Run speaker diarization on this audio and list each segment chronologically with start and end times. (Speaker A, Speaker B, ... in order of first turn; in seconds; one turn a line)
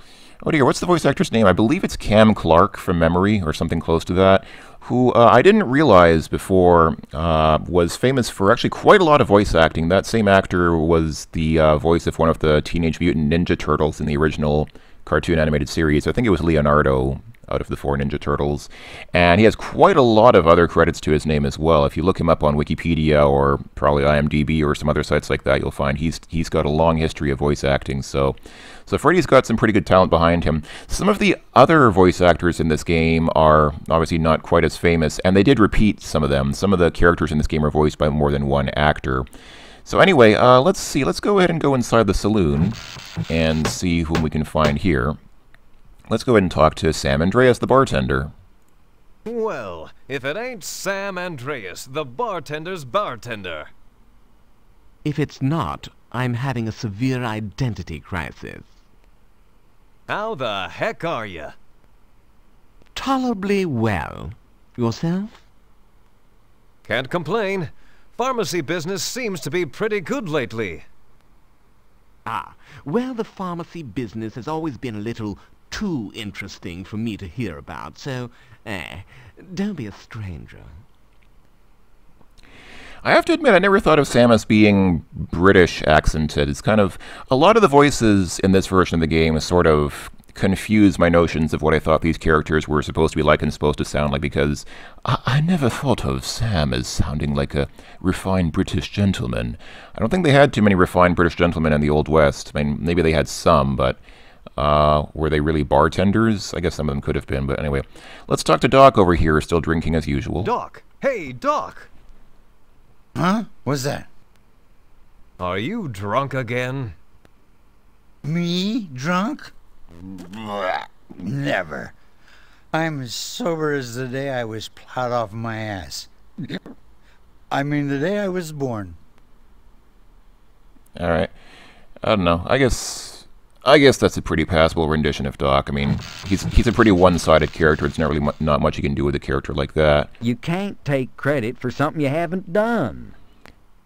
Speaker A: 0.4-39.2
Speaker A: 39.8-45.2
Speaker A: 46.1-48.3
Speaker B: 49.2-53.7
Speaker C: 55.0-58.7
Speaker B: 60.1-61.5
Speaker C: 62.9-65.4
Speaker B: 66.8-70.8
Speaker C: 72.2-80.8
Speaker A: 83.0-104.0
Speaker A: 104.6-110.5
Speaker B: 110.4-111.9
Speaker D: 113.1-114.1
Speaker B: 115.4-116.9
Speaker D: 118.2-119.5
Speaker D: 120.0-121.9
Speaker D: 122.7-126.6
Speaker D: 127.5-128.9
Speaker A: 130.9-131.3
Speaker A: 132.0-140.1
Speaker E: 140.2-143.2